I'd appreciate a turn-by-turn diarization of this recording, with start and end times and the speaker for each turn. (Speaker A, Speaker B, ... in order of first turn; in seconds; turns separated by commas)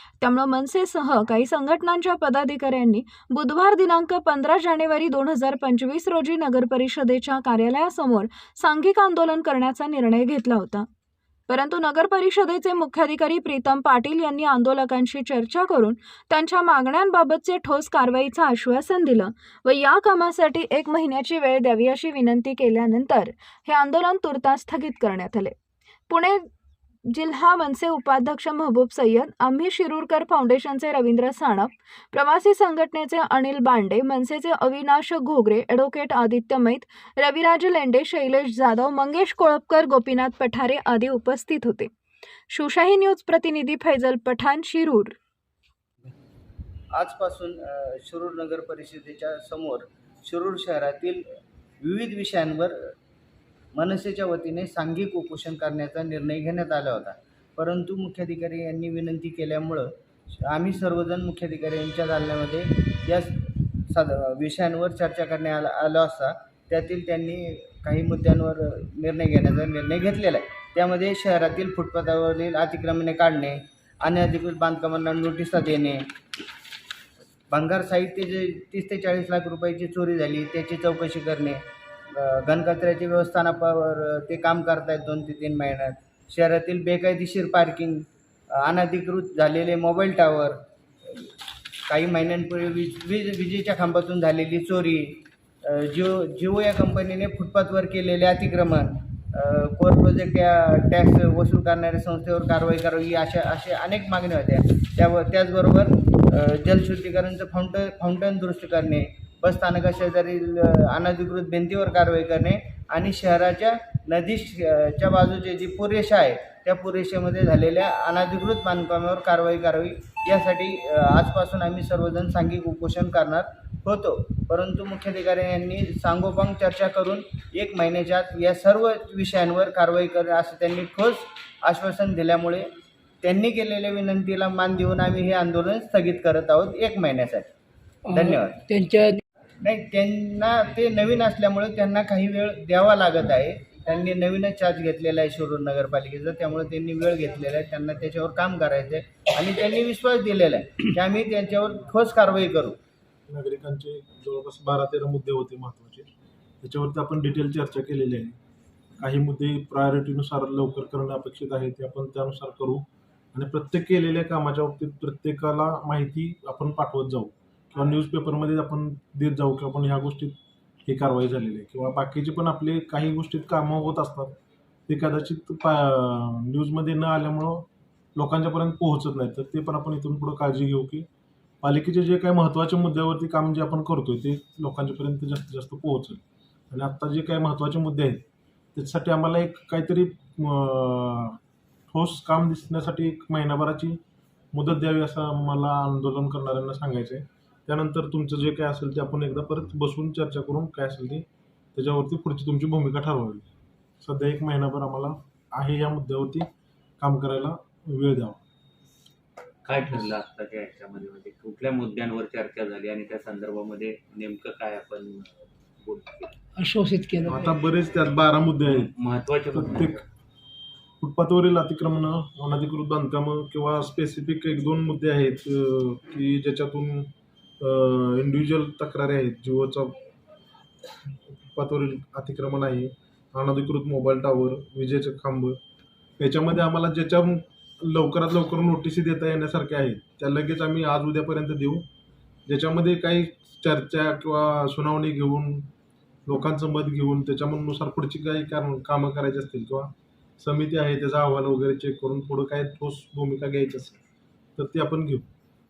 Speaker A: 0.2-10.8, Speaker A: 11.5-25.5, Speaker A: 26.1-26.4, Speaker A: 27.1-41.9, Speaker A: 42.5-45.1, Speaker B: 46.9-51.2, Speaker B: 51.8-52.8, Speaker B: 53.7-59.9, Speaker B: 60.4-76.1, Speaker B: 77.5-81.6, Speaker B: 82.1-88.0, Speaker B: 88.6-91.3, Speaker B: 91.9-132.7, Speaker B: 133.2-137.5, Speaker B: 138.1-138.6, Speaker C: 138.1-139.2, Speaker B: 139.6-152.8, Speaker D: 153.3-156.1, Speaker D: 156.6-158.4, Speaker D: 159.0-174.3, Speaker D: 174.9-181.1, Speaker D: 181.6-188.2, Speaker D: 188.8-191.4, Speaker D: 191.9-194.0, Speaker D: 194.5-203.5, Speaker D: 204.0-206.5, Speaker D: 207.0-208.4, Speaker E: 209.6-216.3, Speaker C: 216.6-217.5, Speaker D: 217.2-218.9, Speaker E: 218.7-220.0, Speaker D: 219.4-220.0, Speaker D: 221.0-230.0, Speaker D: 231.3-235.6, Speaker D: 236.2-241.9, Speaker D: 242.5-245.7, Speaker D: 246.2-254.0, Speaker D: 254.6-255.2